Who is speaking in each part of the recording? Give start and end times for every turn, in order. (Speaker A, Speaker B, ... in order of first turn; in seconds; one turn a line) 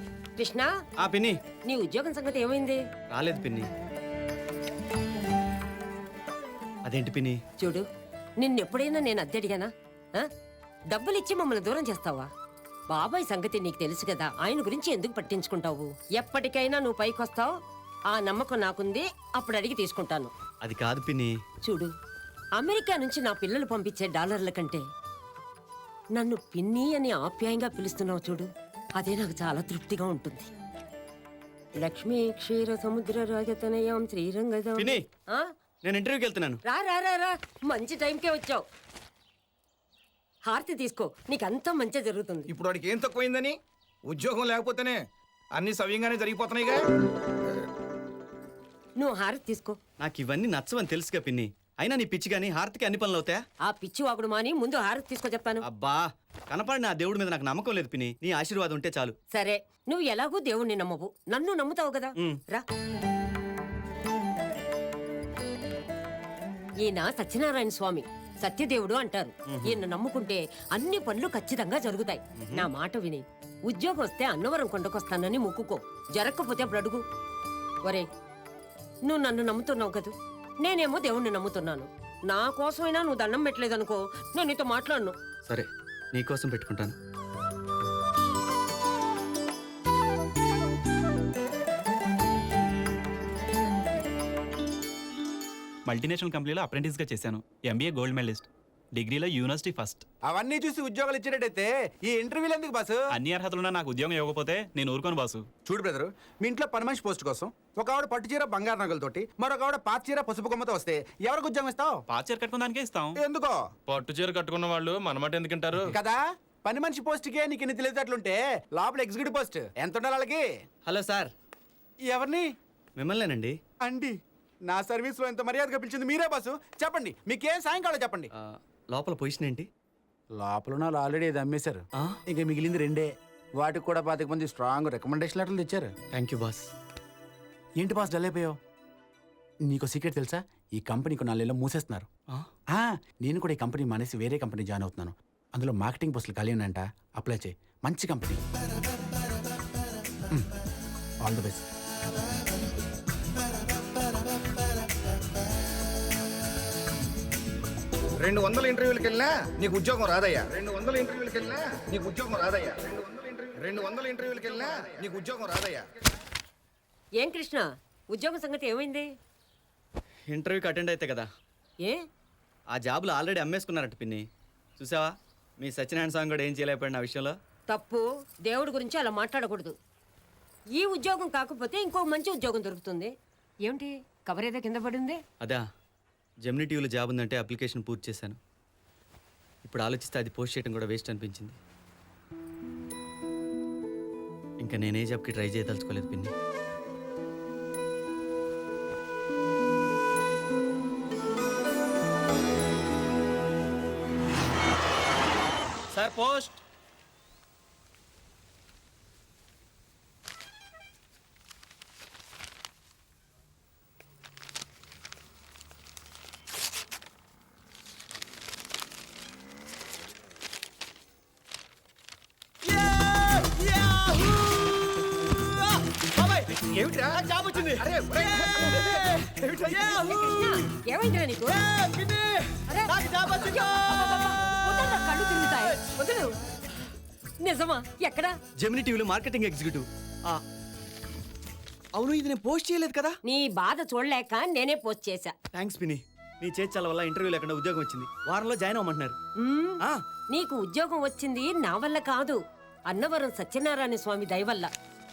Speaker A: 0.4-0.7
Speaker B: 1.0-1.4
Speaker A: 1.6-2.8
Speaker B: 3.1-3.7
Speaker B: 6.8-7.4
Speaker A: 7.6-7.8
Speaker A: 8.4-10.3
Speaker A: 10.9-12.3
Speaker A: 12.9-17.5
Speaker A: 18.1-20.3
Speaker B: 20.6-21.3
Speaker A: 21.6-21.9
Speaker A: 22.6-24.8
Speaker A: 26.1-30.5
Speaker A: 31.8-35.5
Speaker B: 34.8-35.0
Speaker B: 35.8-36.6
Speaker A: 36.6-38.6
Speaker A: 40.5-42.5
Speaker C: 42.5-43.5
Speaker C: 44.1-45.0
Speaker C: 45.5-46.9
Speaker A: 49.0-49.8
Speaker B: 50.0-53.4
Speaker A: 53.6-55.6
Speaker B: 55.6-59.1
Speaker A: 59.3-62.6
Speaker A: 66.8-77.0
Speaker B: 69.5-69.8
Speaker A: 79.0-80.1
Speaker A: 80.6-85.1
Speaker B: 85.5-86.9
Speaker D: 95.8-100.0
Speaker E: 100.3-103.0
Speaker D: 103.1-105.5
Speaker E: 105.7-112.0
Speaker D: 112.1-113.2
Speaker E: 113.2-113.6
Speaker F: 113.9-115.9
Speaker E: 115.9-120.5
Speaker B: 120.8-121.3
Speaker E: 122.1-122.5
Speaker B: 123.0-123.6
Speaker E: 123.8-124.1
Speaker E: 124.7-128.3
Speaker B: 128.3-129.7
Speaker E: 130.3-135.9
Speaker B: 136.1-136.7
Speaker E: 137.8-138.6
Speaker E: 139.7-142.1
Speaker E: 142.7-148.4
Speaker E: 151.2-151.6
Speaker C: 158.2-165.8
Speaker A: 167.2-169.1
Speaker B: 170.3-171.3
Speaker B: 172.7-174.2
Speaker B: 174.8-177.3
Speaker A: 177.7-179.7
Speaker A: 180.8-183.1
Speaker A: 183.6-185.2
Speaker B: 186.4-188.4
Speaker B: 189.6-191.6
Speaker B: 194.6-196.3
Speaker B: 205.9-206.6
Speaker B: 222.7-225.1
Speaker B: 225.9-226.5
Speaker C: 226.6-227.2
Speaker B: 227.1-230.4
Speaker C: 227.8-230.0
Speaker A: 229.8-231.6
Speaker B: 231.6-234.3
Speaker A: 232.7-236.3
Speaker A: 237.4-238.3
Speaker B: 238.6-240.4
Speaker B: 241.9-243.2
Speaker A: 243.2-245.3
Speaker B: 245.5-249.2
Speaker A: 249.4-249.8
Speaker A: 250.3-252.4
Speaker A: 252.9-254.7